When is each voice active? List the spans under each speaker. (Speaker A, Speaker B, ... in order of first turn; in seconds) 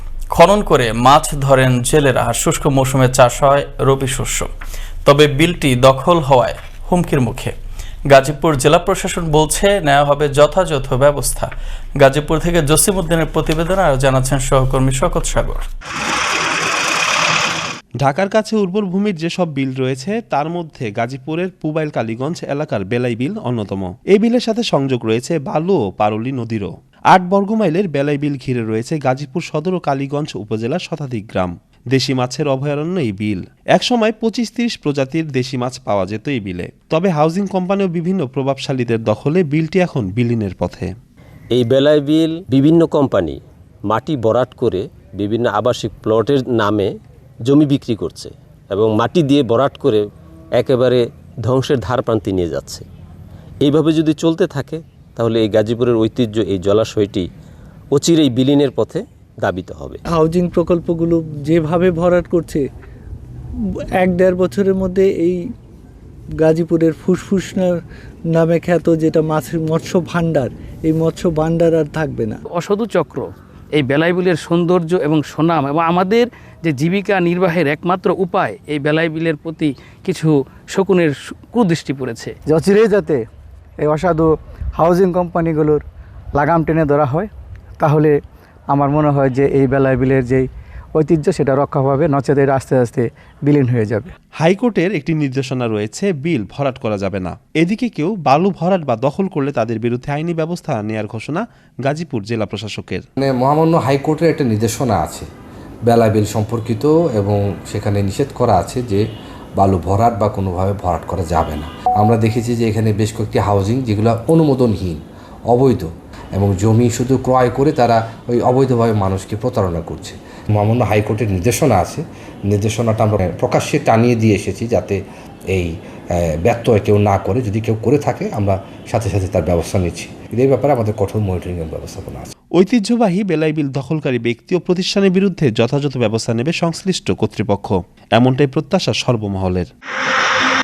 Speaker A: 0.3-4.5, 5.0-7.5, 8.1-15.6
Speaker B: 18.0-40.9, 94.4-103.0, 132.6-139.7
Speaker C: 41.5-46.9, 47.5-50.0, 50.6-52.9, 53.6-57.2, 57.9-60.0
Speaker D: 60.1-62.7, 63.6-65.4, 66.4-72.4
Speaker E: 72.6-82.3
Speaker F: 82.5-83.2, 83.8-85.8, 86.4-87.3, 87.8-88.2, 88.7-94.1
Speaker G: 103.2-105.3, 105.9-109.0, 109.6-125.0, 126.2-132.3